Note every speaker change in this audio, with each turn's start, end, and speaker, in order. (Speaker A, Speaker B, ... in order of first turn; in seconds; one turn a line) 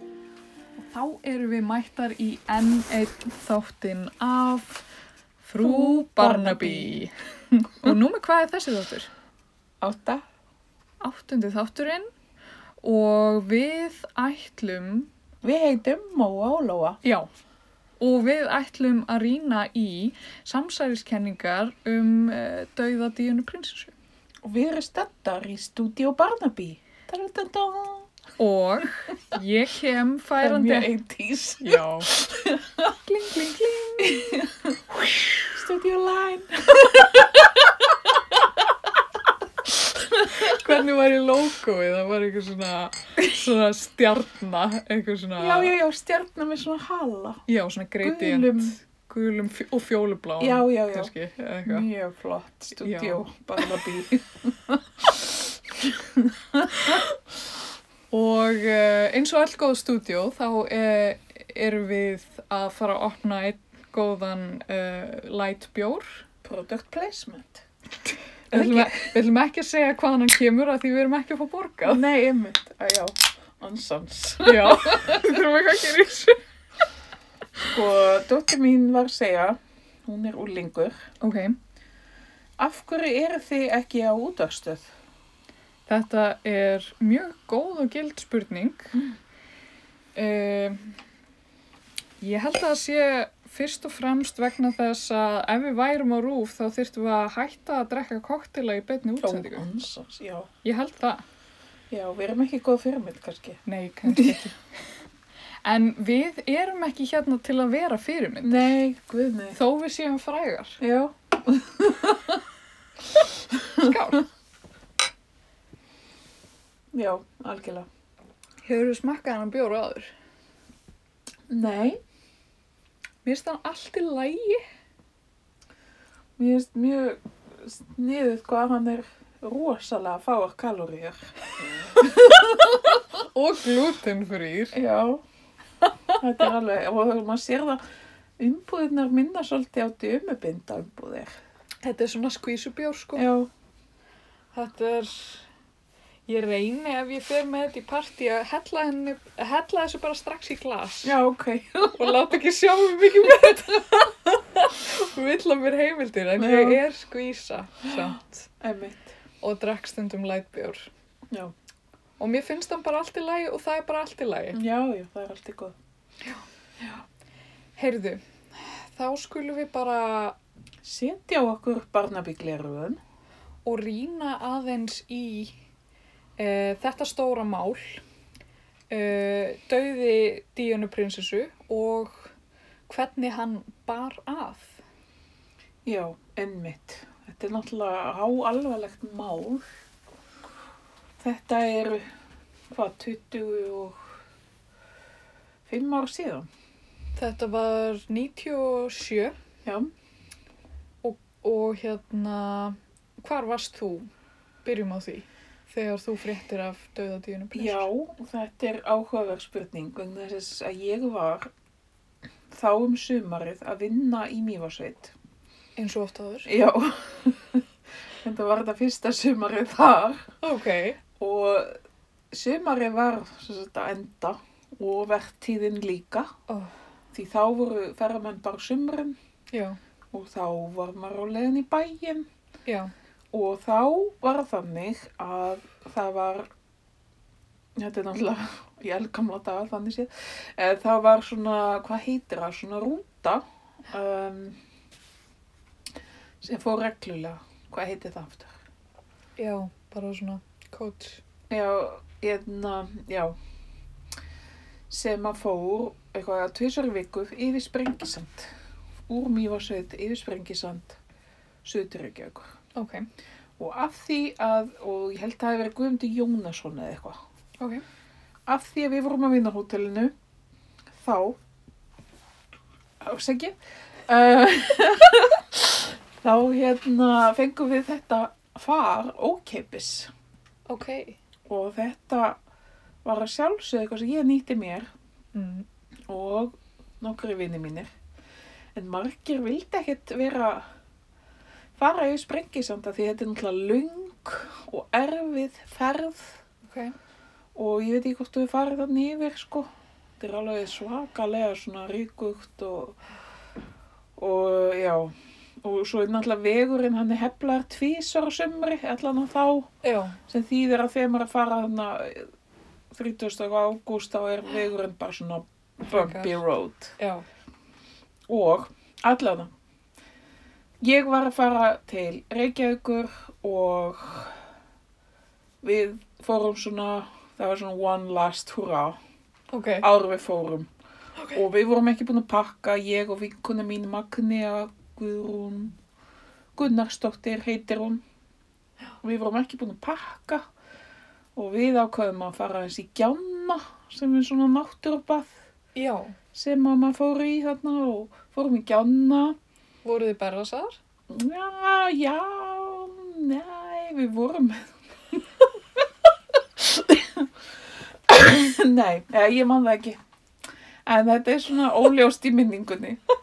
Speaker A: 0.8-4.8
Speaker A: 5.4-9.1
Speaker B: 5.6-7.0
Speaker B: 9.8-10.2
Speaker A: 11.0-12.1
Speaker A: 12.8-15.1
Speaker B: 15.4-17.0
Speaker A: 17.0-17.3
Speaker A: 18.0-23.9
Speaker B: 24.4-28.1
Speaker A: 28.4-30.9
Speaker B: 30.4-33.0
Speaker A: 31.6-32.1
Speaker A: 33.1-34.5
Speaker B: 34.0-34.8
Speaker B: 35.4-38.6
Speaker B: 40.1-40.6
Speaker A: 40.3-45.8
Speaker B: 45.4-47.4
Speaker A: 47.5-51.9
Speaker B: 48.0-48.8
Speaker B: 50.4-51.1
Speaker B: 51.7-57.0
Speaker A: 52.8-53.7
Speaker A: 56.7-57.1
Speaker A: 58.1-66.2
Speaker B: 66.4-67.7
Speaker B: 68.5-69.1
Speaker A: 68.5-72.0
Speaker B: 71.8-75.4
Speaker A: 74.5-76.4
Speaker B: 77.7-81.1
Speaker A: 81.2-81.6
Speaker B: 82.6-84.9
Speaker A: 85.9-89.0
Speaker A: 90.2-91.0
Speaker A: 92.2-99.7
Speaker B: 99.2-100.5
Speaker A: 100.6-101.2
Speaker B: 101.9-104.4
Speaker A: 103.7-104.6
Speaker A: 105.6-108.7
Speaker B: 108.4-109.6
Speaker A: 109.5-110.8
Speaker B: 110.8-112.4
Speaker B: 113.5-114.0
Speaker A: 113.8-114.3
Speaker B: 116.9-117.9
Speaker A: 118.6-120.1
Speaker B: 121.5-122.0
Speaker A: 123.2-124.6
Speaker B: 126.4-131.3
Speaker B: 131.9-132.9
Speaker A: 132.6-134.8
Speaker B: 134.7-135.2
Speaker B: 136.2-137.8
Speaker B: 138.4-141.3
Speaker A: 141.8-143.3
Speaker B: 143.2-143.5
Speaker A: 144.5-145.4
Speaker A: 146.3-151.2
Speaker B: 151.0-152.2
Speaker A: 151.9-158.5
Speaker B: 156.4-156.8
Speaker B: 158.6-159.2
Speaker A: 159.4-160.9
Speaker A: 162.2-164.6
Speaker B: 164.5-165.8
Speaker A: 167.8-170.4
Speaker B: 170.8-173.0
Speaker A: 173.7-175.5
Speaker A: 176.4-178.0
Speaker A: 178.9-182.3
Speaker A: 182.9-184.8
Speaker B: 185.9-189.7
Speaker B: 191.2-192.0
Speaker B: 192.7-194.0
Speaker B: 195.7-196.5
Speaker A: 197.2-199.3
Speaker B: 199.6-199.9
Speaker A: 201.0-204.1
Speaker A: 204.7-207.9
Speaker B: 207.6-211.5
Speaker B: 212.5-215.2
Speaker A: 215.8-216.5
Speaker B: 216.4-217.7
Speaker B: 218.2-220.4
Speaker A: 220.4-221.0
Speaker B: 221.2-221.7
Speaker B: 222.3-226.3
Speaker B: 227.1-229.2
Speaker A: 229.5-229.8
Speaker B: 230.1-232.3
Speaker A: 232.7-232.9
Speaker B: 233.3-236.5
Speaker B: 237.8-244.6
Speaker B: 246.4-248.6
Speaker A: 249.4-251.2
Speaker B: 251.5-253.3
Speaker B: 254.9-258.5
Speaker B: 259.1-261.0
Speaker B: 261.6-262.6
Speaker A: 262.8-263.1
Speaker B: 263.6-267.2
Speaker B: 268.5-270.1
Speaker B: 271.0-271.4
Speaker B: 273.0-280.1
Speaker A: 280.7-281.2
Speaker B: 281.5-282.4
Speaker B: 283.0-284.9
Speaker A: 285.3-285.7
Speaker B: 286.1-287.9
Speaker B: 288.8-290.7
Speaker B: 291.8-296.4
Speaker A: 296.6-296.9
Speaker B: 297.6-299.7
Speaker B: 300.2-303.0
Speaker B: 304.2-309.7
Speaker A: 309.8-310.2
Speaker B: 310.3-312.3
Speaker B: 312.9-316.9
Speaker A: 315.9-316.4
Speaker A: 317.0-317.2
Speaker B: 318.3-319.5
Speaker B: 320.8-324.4
Speaker B: 325.6-329.0
Speaker A: 329.5-329.9
Speaker B: 329.8-330.7
Speaker B: 331.3-335.8
Speaker B: 336.6-338.0
Speaker B: 339.0-340.4
Speaker B: 341.4-345.4
Speaker A: 345.8-346.2
Speaker B: 346.3-349.4
Speaker A: 349.8-350.8
Speaker B: 351.1-355.8
Speaker B: 356.6-357.3
Speaker B: 358.1-360.0
Speaker B: 360.9-363.0